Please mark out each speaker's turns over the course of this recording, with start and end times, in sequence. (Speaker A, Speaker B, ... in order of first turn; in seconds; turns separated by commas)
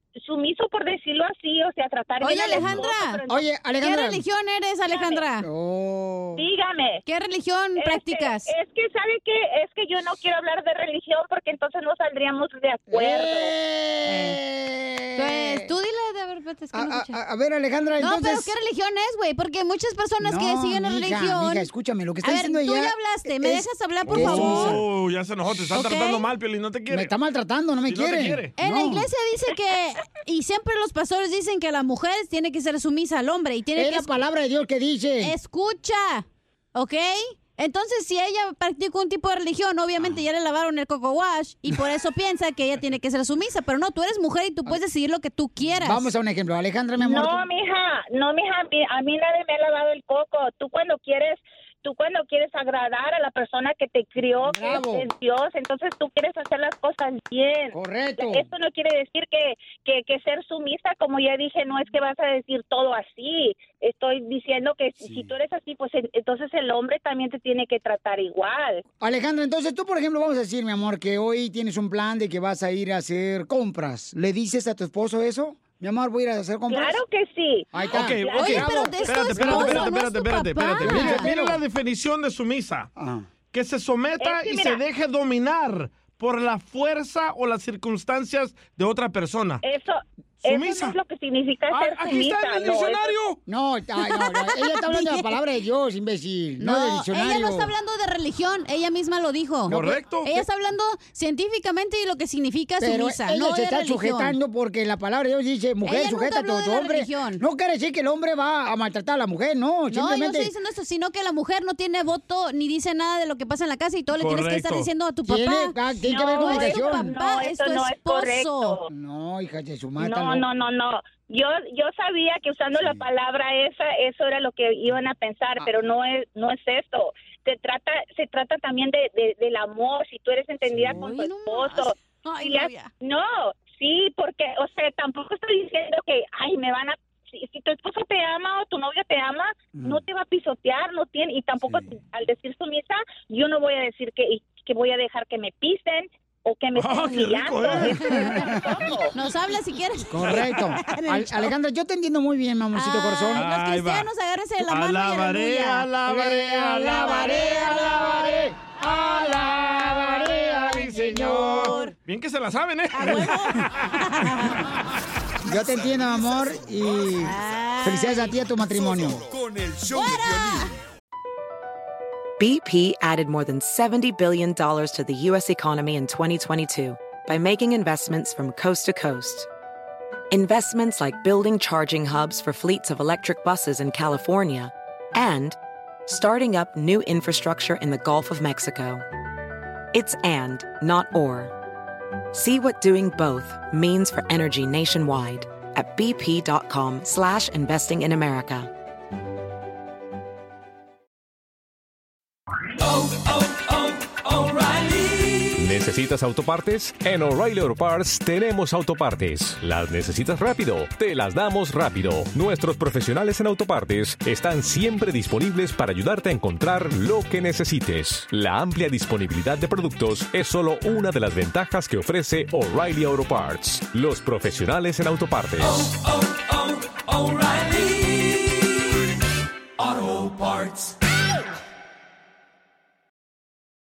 Speaker A: 0.2-3.5, Speaker B: 2.2-3.2, Speaker C: 2.6-4.2, Speaker B: 3.8-5.5, Speaker A: 4.9-5.2, Speaker C: 5.4-6.5, Speaker A: 6.4-7.0, Speaker B: 7.1-8.5, Speaker A: 7.8-13.5, Speaker C: 12.9-15.7, Speaker B: 14.1-14.4, Speaker B: 15.2-17.2, Speaker C: 16.7-18.5, Speaker B: 18.0-21.7, Speaker C: 20.2-24.8, Speaker B: 22.2-24.8, Speaker D: 24.1-27.1, Speaker B: 25.7-26.3, Speaker C: 26.9-29.1, Speaker D: 27.9-28.5, Speaker B: 28.6-34.1, Speaker C: 33.8-35.3, Speaker B: 35.2-46.1, Speaker C: 45.8-47.5, Speaker A: 47.0-68.8, Speaker C: 54.4-55.1, Speaker C: 57.7-58.5, Speaker C: 65.0-65.3, Speaker C: 69.0-77.0, Speaker A: 76.7-78.6, Speaker C: 77.7-79.8, Speaker B: 77.8-81.3, Speaker D: 77.9-82.9, Speaker C: 80.8-81.6, Speaker C: 83.0-83.2, Speaker D: 83.5-89.6, Speaker A: 84.2-84.8, Speaker A: 89.6-93.2, Speaker D: 90.4-91.0, Speaker D: 91.7-93.4, Speaker C: 93.5-97.7, Speaker B: 94.0-95.3, Speaker B: 96.6-104.4, Speaker D: 99.7-100.4, Speaker C: 102.8-110.5, Speaker B: 105.8-107.4, Speaker B: 109.9-118.8, Speaker D: 114.2-114.9, Speaker C: 115.3-117.2, Speaker A: 116.0-118.9, Speaker C: 118.9-120.4, Speaker A: 120.0-149.1, Speaker C: 130.8-131.0, Speaker B: 130.8-132.9, Speaker C: 139.8-140.0, Speaker D: 146.8-148.3, Speaker B: 147.8-148.4, Speaker B: 149.1-151.5, Speaker C: 150.1-153.5, Speaker B: 152.7-155.9, Speaker D: 153.3-154.1, Speaker D: 154.7-157.5, Speaker C: 156.0-161.8, Speaker B: 156.7-158.3, Speaker D: 160.1-163.3, Speaker B: 160.7-161.9, Speaker B: 162.9-164.6, Speaker E: 165.4-167.2, Speaker C: 165.4-169.2, Speaker B: 167.2-168.4, Speaker E: 168.6-170.8, Speaker B: 169.9-170.7, Speaker F: 172.4-179.5, Speaker F: 180.3-189.0, Speaker F: 189.9-191.5, Speaker F: 192.3-198.7, Speaker G: 205.6-225.8